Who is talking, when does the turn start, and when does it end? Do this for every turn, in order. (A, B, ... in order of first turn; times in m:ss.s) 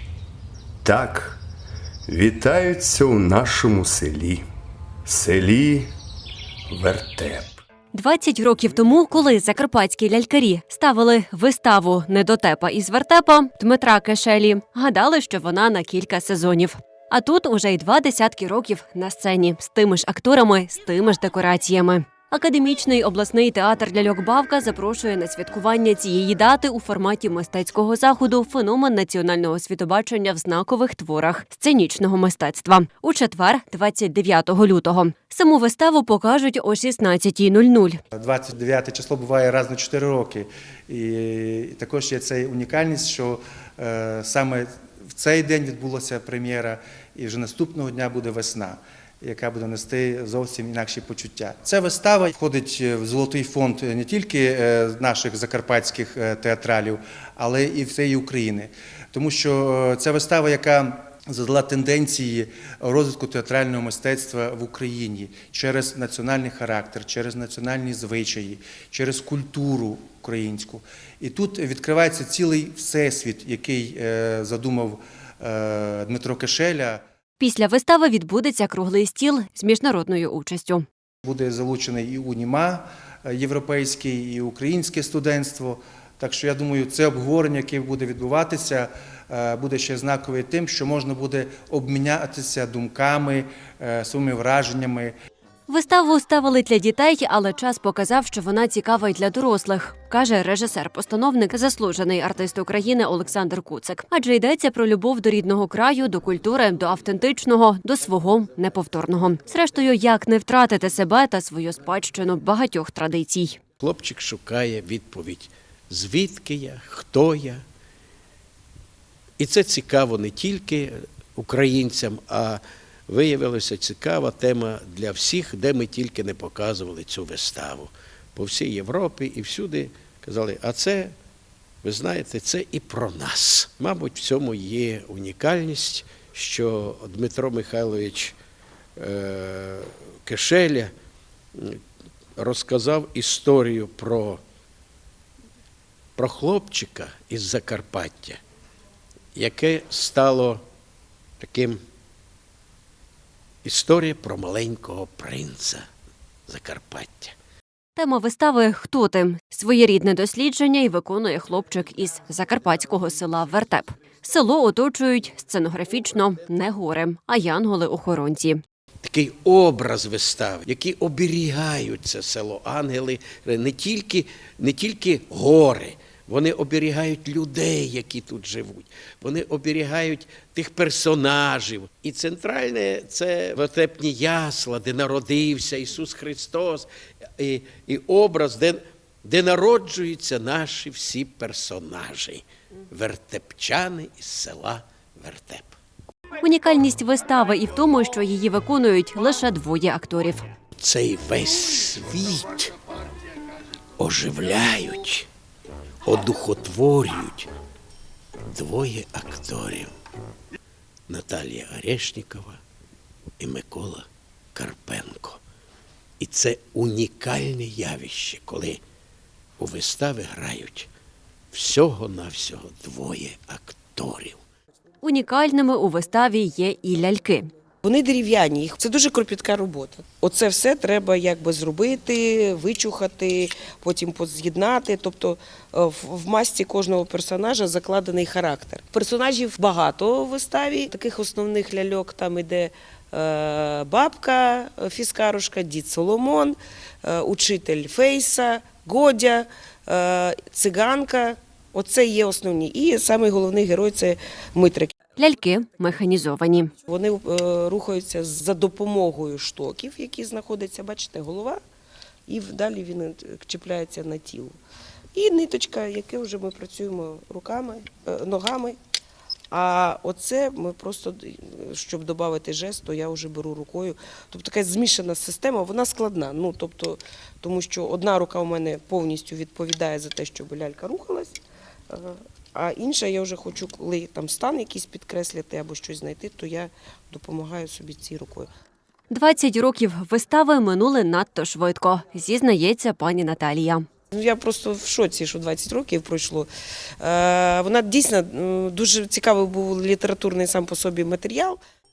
0:00.8-0:01.4 A
0:02.0-0:04.4 A
0:05.0-0:05.9 A
0:06.7-0:07.6 A
0:07.9-0:38.0 B
0:38.1-1:17.0 C
1:17.4-1:20.8 B
1:21.2-1:35.1 C
1:35.7-1:53.6 B
1:53.8-1:57.6 D
1:59.4-2:11.1 D
2:11.8-2:18.4 D
2:19.0-2:20.9 D
2:21.5-2:21.8 D
2:22.4-2:24.4 D
2:26.2-2:28.4 D
2:29.3-2:30.6 D
2:31.4-2:31.8 D
2:33.6-2:35.8 D
2:36.5-2:37.3 D
2:38.0-2:48.6 B
2:49.0-3:06.9 D
3:07.4-3:15.8 D
3:16.4-3:20.4 B
3:20.8-3:22.7 D
3:24.0-3:25.3 D
3:26.0-3:27.5 D
3:28.5-3:29.9 D
3:31.1-3:32.6 D
3:33.4-3:35.4 D
3:36.2-3:38.8 D
3:39.6-3:40.9 D
3:41.5-3:44.4 D
3:45.0-3:47.5 B
3:47.8-4:14.9 E
4:15.2-4:16.7 B
4:16.8-4:21.6 E
4:22.3-4:24.5 E
4:25.1-4:28.8 E
4:29.5-4:41.4 E
4:41.9-4:48.5 E
4:49.1-4:53.8 B
4:54.1-4:56.5 E
4:57.0-5:01.6 E